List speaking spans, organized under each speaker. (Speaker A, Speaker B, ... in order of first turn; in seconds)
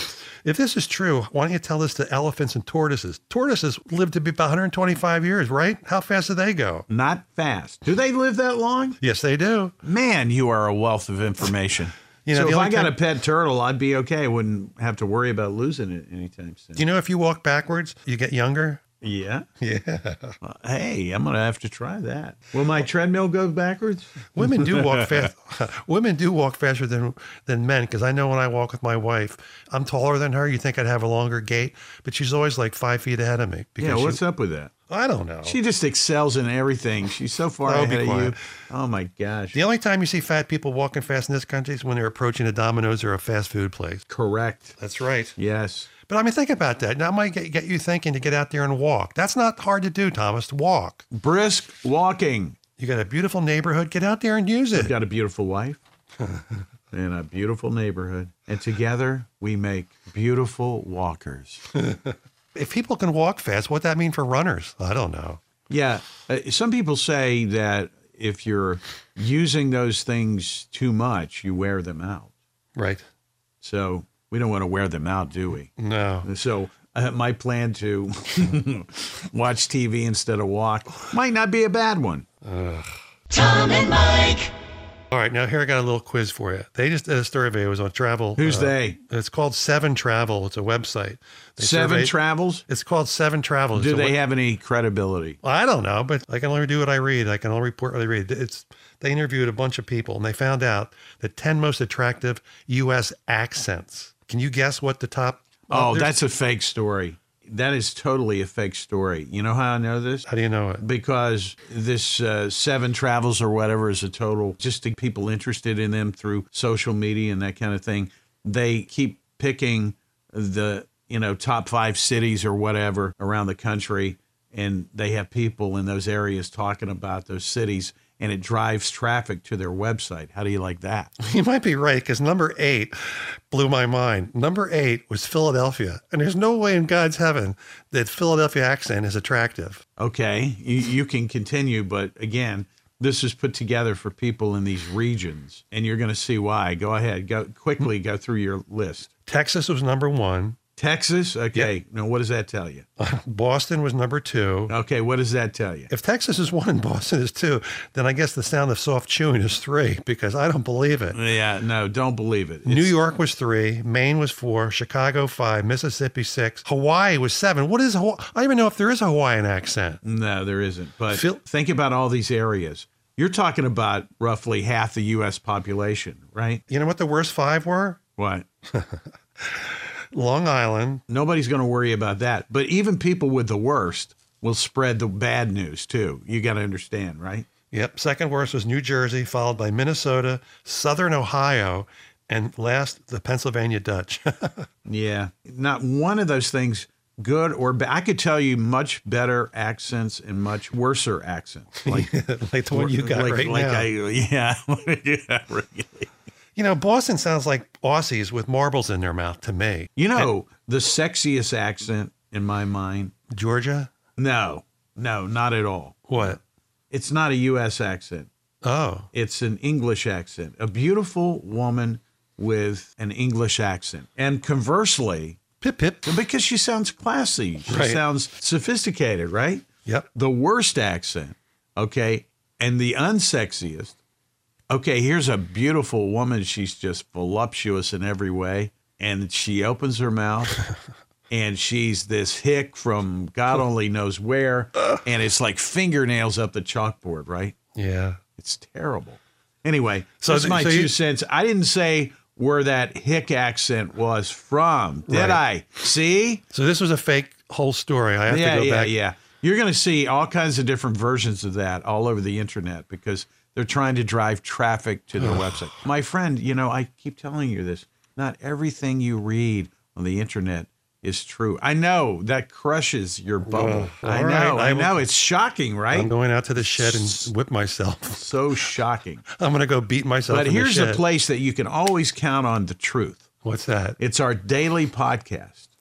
Speaker A: 0.4-6.8, 9.0-9.7, 12.2-12.9, 16.8-18.8, 19.6-20.4, 24.4-34.2, 34.9-35.6, 37.6-38.3, 39.5-44.0, 44.8-45.3, 46.1-51.0, 52.8-54.9, 56.2-56.5, 61.7-65.4, 72.8-73.0, 75.8-76.3, 82.4-82.9, 85.1-92.1, 92.7-94.2, 95.4-106.2, 110.3-110.8, 131.2-139.8, 149.3-150.6, 153.0-154.7, 155.9-161.2, 162.7-170.0, 171.1-171.4, 176.7-178.0, 178.7-181.0, 187.7-194.7, 201.8-203.9, 206.6-210.3, 213.3-213.9, 216.1-216.4, 218.6-219.1, 225.6-226.1, 227.7-228.0, 247.8-248.2, 250.2-250.9, 255.1-255.4, 256.5-258.9, 265.2-265.7, 273.4-275.0, 275.9-278.3, 279.4-281.0, 283.4-284.0
Speaker B: 6.9-9.0, 9.8-16.8, 19.0-19.4, 20.4-25.3, 33.8-34.7, 35.4-39.6, 44.1-44.8, 45.4-45.9, 51.1-52.5, 54.7-55.8, 56.9-61.6, 65.7-72.3, 73.6-75.7, 76.2-82.2, 88.4-89.0, 91.6-92.6, 93.7-95.4, 105.7-110.3, 110.8-131.1, 140.0-149.1, 150.8-152.8, 154.7-155.9, 161.1-162.9, 170.0-176.6, 178.2-178.4, 181.1-187.5, 194.8-202.1, 202.7-206.1, 210.0-213.1, 214.2-216.4, 216.9-218.3, 219.1-225.4, 226.0-233.9, 234.7-240.6, 241.3-247.5, 248.4-256.4, 258.3-277.3, 278.1-279.2, 280.3-283.2, 284.0-285.7